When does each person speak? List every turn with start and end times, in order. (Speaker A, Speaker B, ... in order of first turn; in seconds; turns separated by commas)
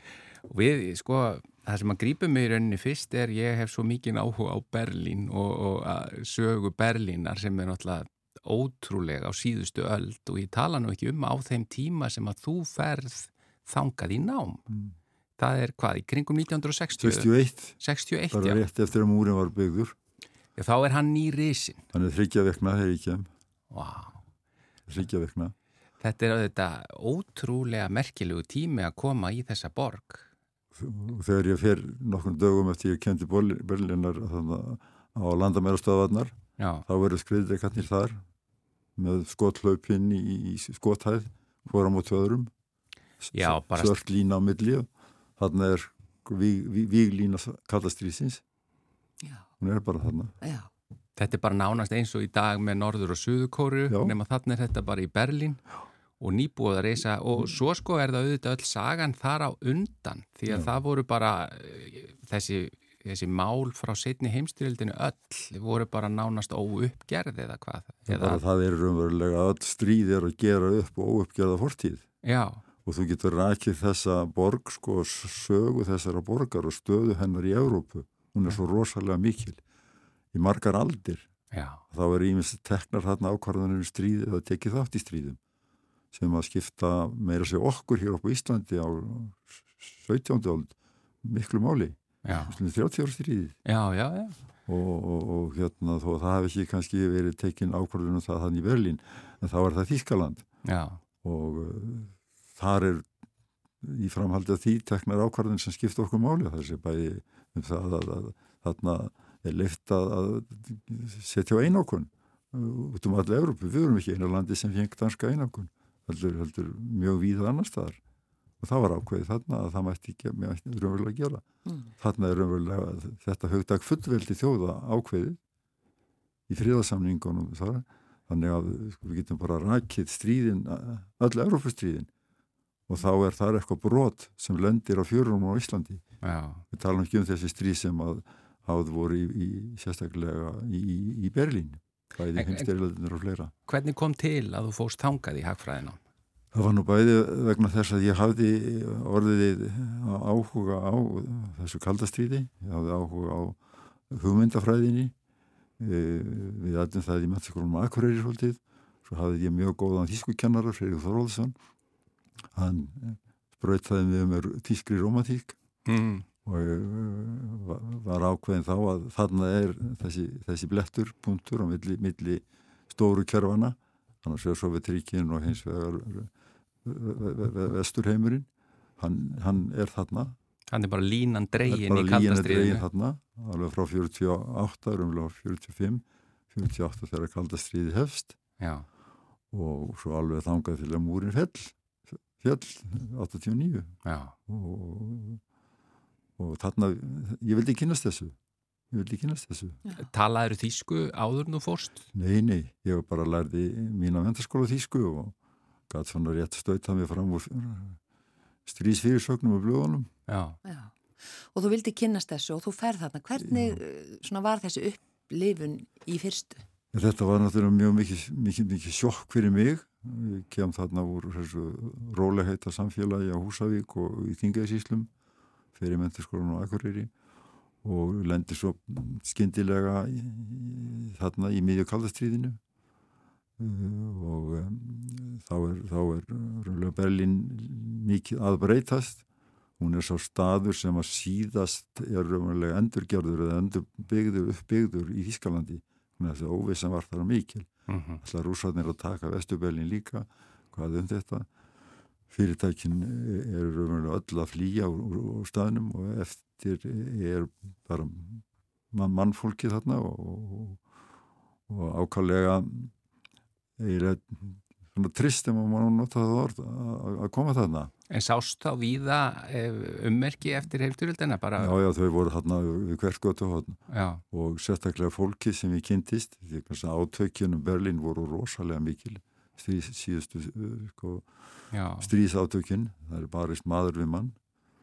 Speaker A: 0.5-14.6, Speaker B: 14.7-14.9, Speaker A: 15.4-18.6, Speaker B: 17.0-17.8, Speaker B: 18.3-19.9, Speaker A: 20.6-21.8, Speaker B: 21.9-23.3, Speaker A: 23.7-24.2, Speaker B: 24.9-25.5, Speaker A: 26.0-30.3, Speaker B: 30.7-38.2, Speaker A: 36.6-36.9, Speaker B: 39.0-42.5, Speaker B: 43.2-48.4, Speaker A: 43.3-44.0, Speaker B: 49.6-50.3, Speaker C: 50.4-50.7, Speaker A: 51.2-55.6, Speaker B: 53.9-54.1, Speaker A: 56.2-68.4, Speaker B: 68.1-72.0, Speaker A: 72.2-72.6, Speaker B: 72.8-79.6, Speaker B: 80.3-81.3, Speaker A: 81.5-81.8, Speaker B: 81.9-85.4, Speaker B: 86.1-93.6, Speaker A: 92.2-92.5, Speaker A: 93.7-94.4, Speaker B: 94.7-100.5, Speaker A: 100.7-101.0, Speaker B: 101.2-103.1, Speaker B: 103.8-118.0, Speaker B: 118.6-121.4, Speaker B: 122.0-125.4, Speaker B: 126.5-132.1, Speaker B: 132.9-136.0, Speaker A: 136.2-136.6, Speaker B: 136.7-143.5, Speaker A: 142.3-142.7, Speaker A: 143.7-146.0, Speaker B: 146.5-153.6, Speaker B: 154.1-155.1, Speaker B: 155.8-161.5, Speaker B: 162.5-165.6, Speaker A: 165.8-166.2, Speaker B: 166.4-176.3, Speaker B: 176.8-178.5, Speaker B: 179.0-180.4, Speaker A: 180.7-182.8, Speaker B: 181.7-188.4, Speaker A: 188.6-188.8, Speaker B: 189.5-191.7, Speaker B: 192.3-195.4, Speaker A: 194.0-194.3, Speaker B: 196.4-198.3, Speaker B: 198.9-199.8, Speaker A: 200.0-202.0, Speaker B: 202.1-205.3, Speaker B: 205.9-208.0, Speaker B: 208.7-210.1, Speaker A: 210.3-210.6, Speaker C: 210.6-210.9, Speaker C: 211.5-216.6, Speaker B: 213.4-213.8, Speaker B: 216.9-225.1, Speaker B: 225.7-227.1, Speaker B: 227.8-232.6, Speaker B: 233.6-239.2, Speaker B: 239.8-247.7, Speaker A: 247.9-248.2, Speaker B: 248.2-251.5, Speaker B: 252.3-260.8, Speaker B: 261.7-262.9, Speaker B: 263.8-267.9, Speaker A: 268.1-271.7, Speaker B: 271.6-284.4, Speaker A: 273.9-274.2, Speaker A: 281.7-282.1